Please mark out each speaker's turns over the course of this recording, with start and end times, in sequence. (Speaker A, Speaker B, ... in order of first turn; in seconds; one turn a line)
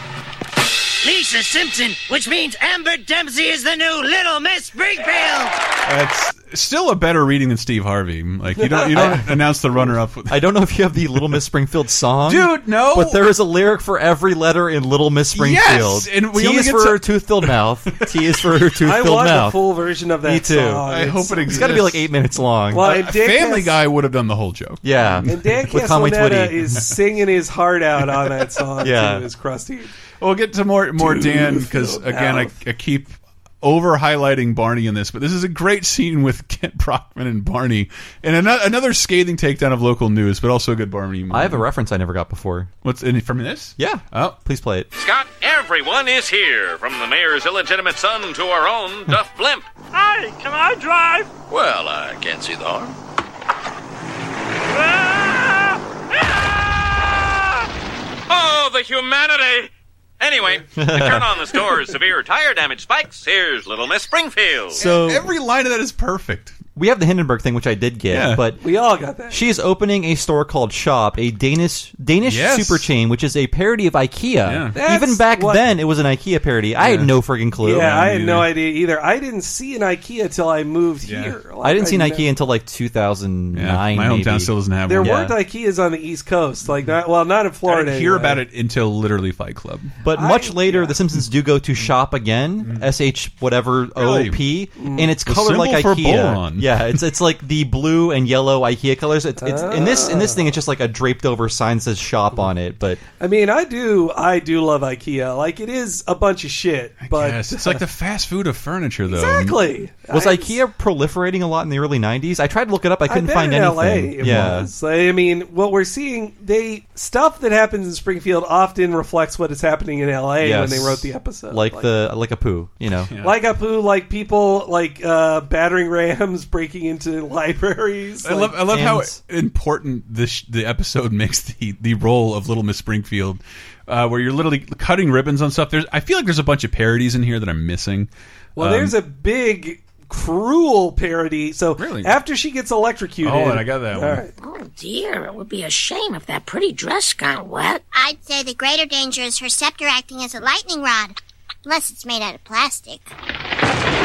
Speaker A: 1.0-5.6
Speaker B: 5.8-10.5
Speaker C: 8.6-9.2
Speaker D: 8.9-9.3
Speaker D: 10.3-19.6
Speaker B: 12.2-13.3
Speaker B: 15.3-17.5
Speaker C: 18.8-21.8
Speaker D: 20.2-20.9
Speaker B: 20.9-22.1
Speaker D: 21.4-22.9
Speaker C: 22.7-23.8
Speaker B: 22.8-25.4
Speaker D: 24.8-26.7
Speaker C: 25.2-29.9
Speaker D: 28.8-29.2
Speaker B: 30.2-41.6
Speaker C: 31.0-32.5
Speaker D: 41.3-42.7
Speaker B: 42.8-44.4
Speaker D: 43.8-44.9
Speaker E: 44.9-49.7
Speaker E: 55.0-55.4
Speaker E: 56.4-57.2
Speaker E: 58.3-59.7
Speaker E: 60.2-64.8
Speaker D: 60.8-61.3
Speaker D: 64.8-65.3
Speaker B: 64.8-66.6
Speaker D: 66.8-68.6
Speaker B: 68.1-68.4
Speaker C: 68.6-69.4
Speaker D: 69.3-77.9
Speaker B: 72.2-72.9
Speaker B: 74.5-74.7
Speaker C: 74.7-75.6
Speaker B: 76.8-77.1
Speaker C: 77.6-82.3
Speaker B: 77.7-78.5
Speaker B: 81.0-81.3
Speaker D: 81.6-85.3
Speaker B: 83.5-85.3
Speaker C: 84.9-88.4
Speaker B: 87.6-89.9
Speaker D: 90.0-103.0
Speaker C: 90.1-90.9
Speaker B: 92.6-92.9
Speaker B: 93.9-94.4
Speaker C: 94.8-95.1
Speaker B: 95.2-97.0
Speaker C: 99.4-100.5
Speaker C: 103.2-107.8
Speaker B: 107.0-109.6
Speaker C: 109.1-110.5
Speaker D: 110.1-114.7
Speaker C: 113.1-121.9
Speaker D: 120.4-123.1
Speaker B: 123.1-123.4
Speaker C: 123.2-128.6
Speaker B: 128.2-138.9
Speaker D: 128.7-129.1
Speaker C: 138.6-144.3
Speaker B: 141.8-142.2
Speaker B: 143.2-144.2
Speaker F: 144.4-147.8
Speaker G: 147.9-153.1